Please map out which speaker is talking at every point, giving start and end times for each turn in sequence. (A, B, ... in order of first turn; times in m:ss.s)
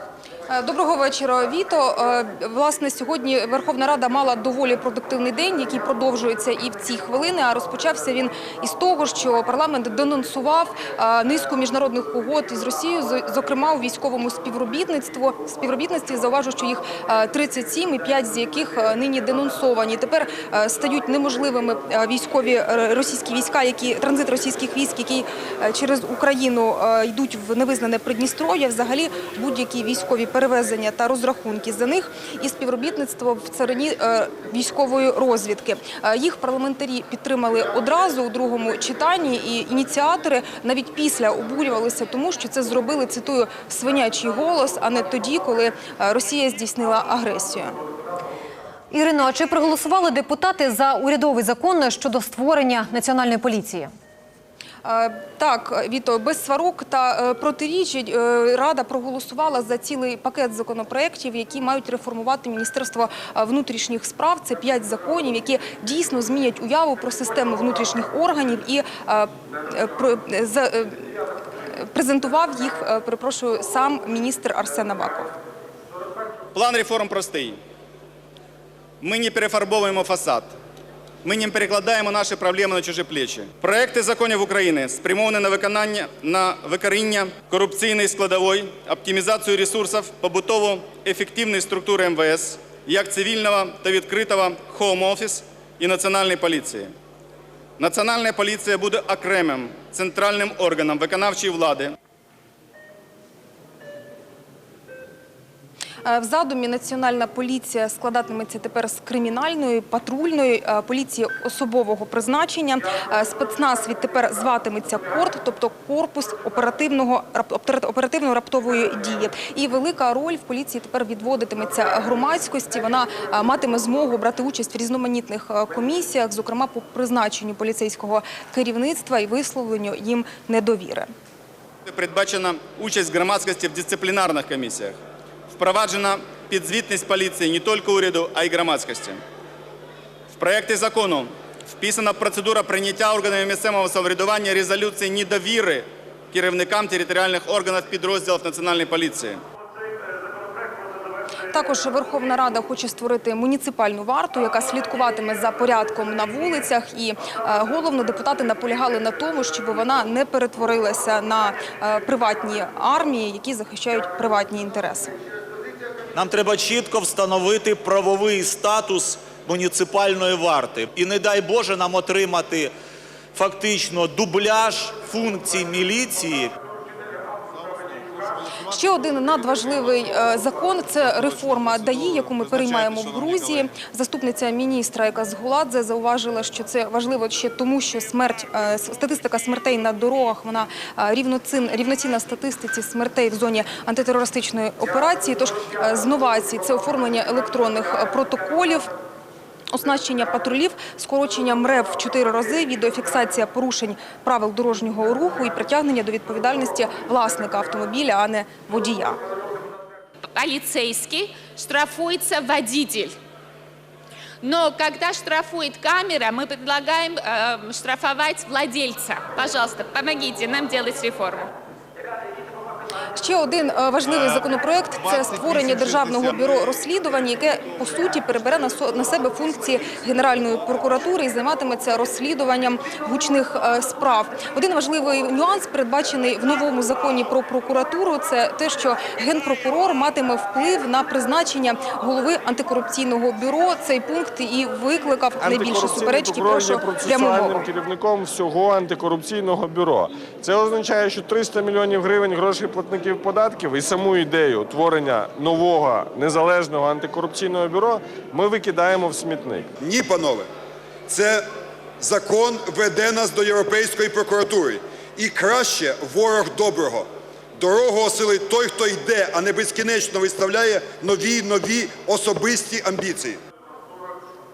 0:00.5-0:47.8 A
0:48.9-0:53.9 B
0:54.8-1:11.0 A
1:11.8-1:15.3 A
1:16.5-1:17.6 C
1:19.0-1:20.5 C
1:21.2-1:36.9 C
1:37.8-1:42.0 C
1:46.0-2:11.1 A
2:11.9-2:15.0 C
2:15.5-2:19.2 C
2:20.3-2:29.4 C
2:31.5-2:45.1 A
2:46.1-2:52.7 D
2:53.3-2:56.5 D
2:58.7-3:18.9 A
3:19.7-3:29.2 A
3:30.3-3:33.2 E
3:34.4-3:41.5 E
3:43.2-4:07.7 A
4:05.4-4:19.7 F
4:19.8-4:20.5 G
4:21.1-4:21.4 G
4:22.0-4:33.4 G